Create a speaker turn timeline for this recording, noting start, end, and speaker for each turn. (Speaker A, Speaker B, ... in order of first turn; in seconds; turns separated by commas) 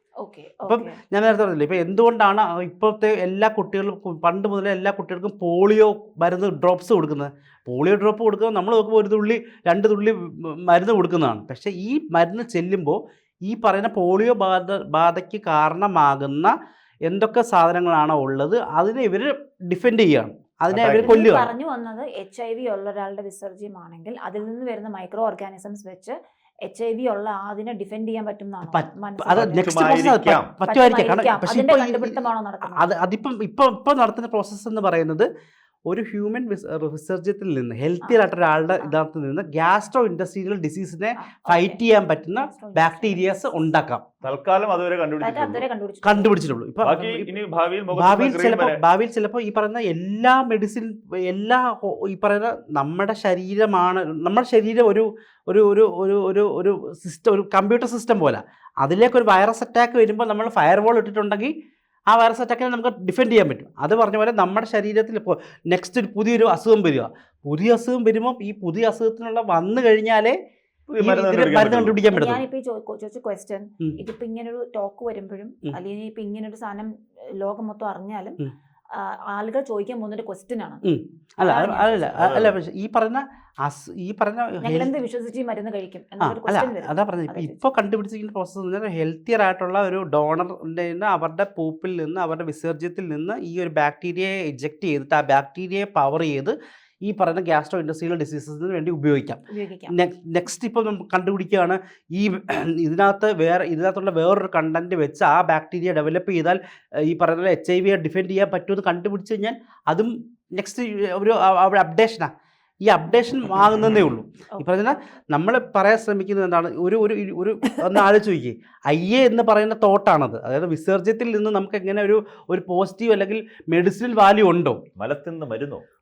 Speaker A: 0.2-1.0, Speaker B: 0.7-16.5, Speaker B: 17.1-21.5, Speaker C: 20.7-21.2, Speaker A: 20.9-30.1, Speaker B: 28.7-35.3, Speaker C: 29.3-30.5, Speaker A: 30.6-32.8, Speaker B: 35.9-44.0, Speaker A: 41.2-43.2, Speaker C: 44.2-45.6, Speaker A: 45.2-46.4, Speaker B: 46.0-47.3, Speaker C: 46.8-48.8, Speaker B: 47.9-61.5, Speaker B: 62.1-70.3, Speaker C: 70.9-72.0, Speaker B: 71.0-72.4, Speaker A: 72.1-78.4, Speaker A: 78.9-80.8, Speaker B: 80.8-84.9, Speaker A: 81.4-82.1, Speaker C: 82.0-82.6, Speaker A: 84.6-87.6, Speaker B: 86.2-112.3, Speaker A: 99.5-99.9, Speaker B: 112.8-124.8, Speaker A: 114.5-114.9, Speaker C: 125.0-125.8